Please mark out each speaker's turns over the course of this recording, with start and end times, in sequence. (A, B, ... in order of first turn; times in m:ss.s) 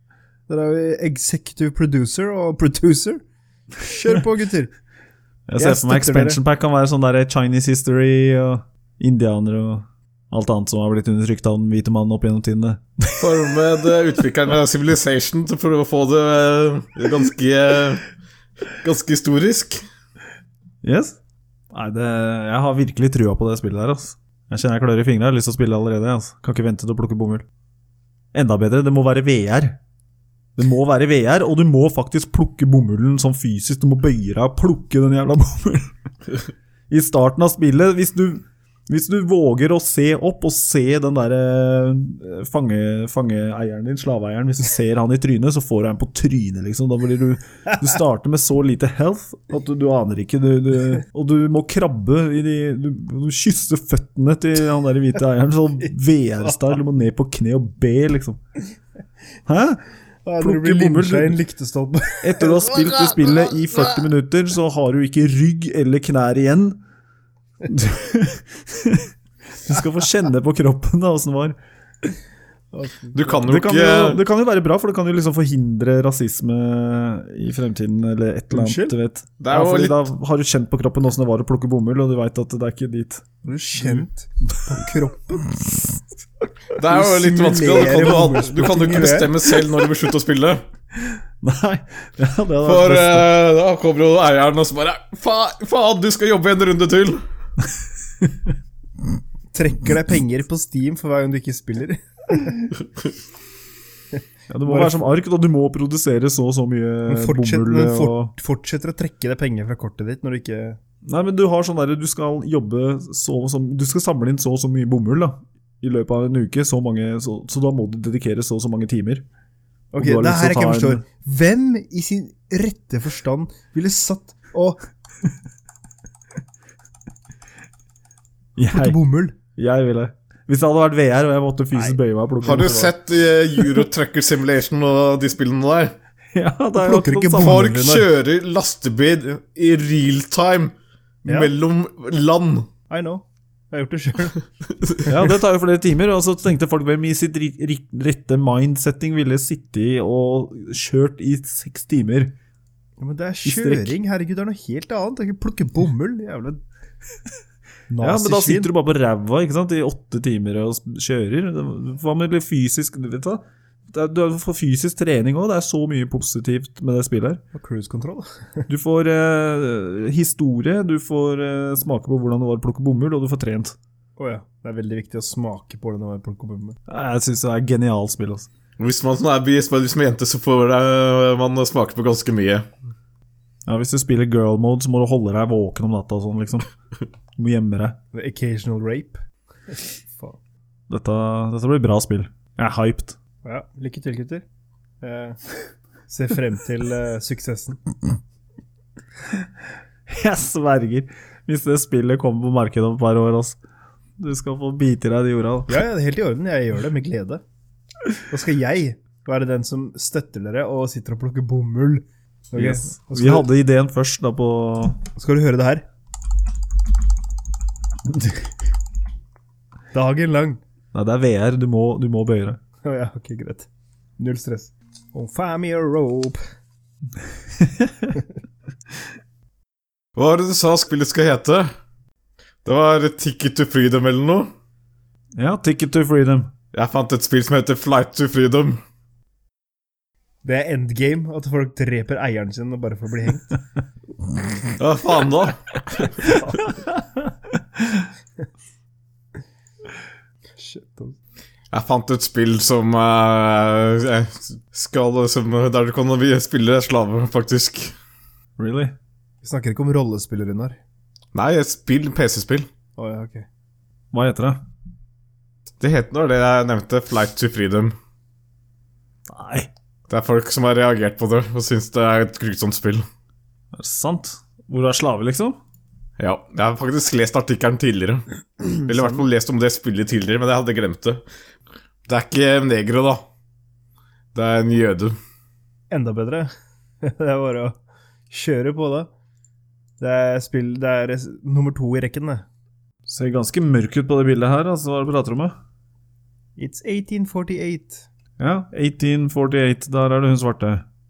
0:00.5-0:03.2 A
0:03.8-0:04.7 A
0:05.5-0:13.4 B
0:05.6-0:06.4 A
0:13.2-0:18.1 C
0:18.7-0:19.8 C
0:20.8-0:21.2 B
0:21.7-0:27.4 B
0:28.3-0:29.8 B
0:30.6-0:35.9 B
0:36.9-0:58.4 B
0:59.5-0:59.8 B
1:00.2-1:02.9 A
1:00.4-1:01.4 B
1:02.2-1:06.8 B
1:07.6-1:11.6 B
1:12.7-1:13.4 A
1:13.1-1:14.2 C
1:13.4-1:23.3 B
1:18.5-1:19.0 A
1:19.4-1:20.1 C
1:23.4-1:25.6 A
1:26.8-1:30.6 C
1:26.8-1:29.6 A
1:31.1-1:33.3 B
1:32.6-1:37.2 C
1:39.5-1:42.7 A
1:44.5-1:48.3 B
1:44.7-1:45.1 A
1:47.1-1:50.8 A
1:51.1-1:59.2 B
1:59.9-2:04.8 A
2:00.0-2:01.0 B
2:08.6-2:09.0 B
2:08.7-2:09.4 A
2:09.6-2:12.9 B
2:12.4-2:16.0 C
2:16.4-2:17.7 B
2:16.8-2:18.1 A
2:17.3-2:22.7 C
2:21.3-2:21.5 A
2:22.9-2:24.4 A
2:25.0-2:32.4 B
2:33.0-2:36.6 A
2:33.4-2:34.0 B
2:37.9-2:38.7 A
2:38.0-2:47.4 B
2:47.5-2:48.7 A
2:48.7-2:53.8 B
2:54.2-2:56.8 A
2:56.9-2:58.5 B
2:58.8-3:02.7 C
3:03.7-3:06.7 B
3:07.4-3:08.0 B
3:08.1-3:10.4 A
3:10.9-3:13.2 B
3:13.4-3:14.4 A
3:15.0-3:15.4 A
3:16.1-3:17.8 A
3:20.1-3:23.6 B
3:24.2-3:25.8 B
3:25.7-3:27.4 A
3:28.3-3:33.5 A
3:32.6-3:35.0 B
3:35.2-3:35.8 A
3:39.9-3:40.6 A
3:40.9-3:42.6 B
3:42.8-3:46.4 A
3:47.6-3:48.2 B
3:50.2-3:51.7 C
3:52.6-3:54.5 C
3:55.4-3:56.5 B
3:56.7-3:58.8 C
4:00.4-4:03.6 A
4:04.8-4:06.5 C
4:07.8-4:08.0 B
4:10.6-4:11.2 A
4:11.7-4:17.9 C
4:18.6-4:19.0 B
4:19.4-4:20.8 A
4:21.3-4:22.7 C
4:23.0-4:23.5 A
4:24.1-4:24.6 B
4:25.8-4:28.0 C
4:29.3-4:29.7 B
4:30.1-4:33.1 C
4:33.7-4:35.6 B
4:36.2-4:41.2 C
4:38.9-4:39.2 A
4:42.1-4:43.2 C
4:44.4-4:45.2 C
4:45.9-4:46.5 A
4:47.0-4:49.1 A
4:50.0-4:52.4 A
4:53.1-4:55.6 B
4:56.6-4:58.1 A
4:58.4-5:00.8 B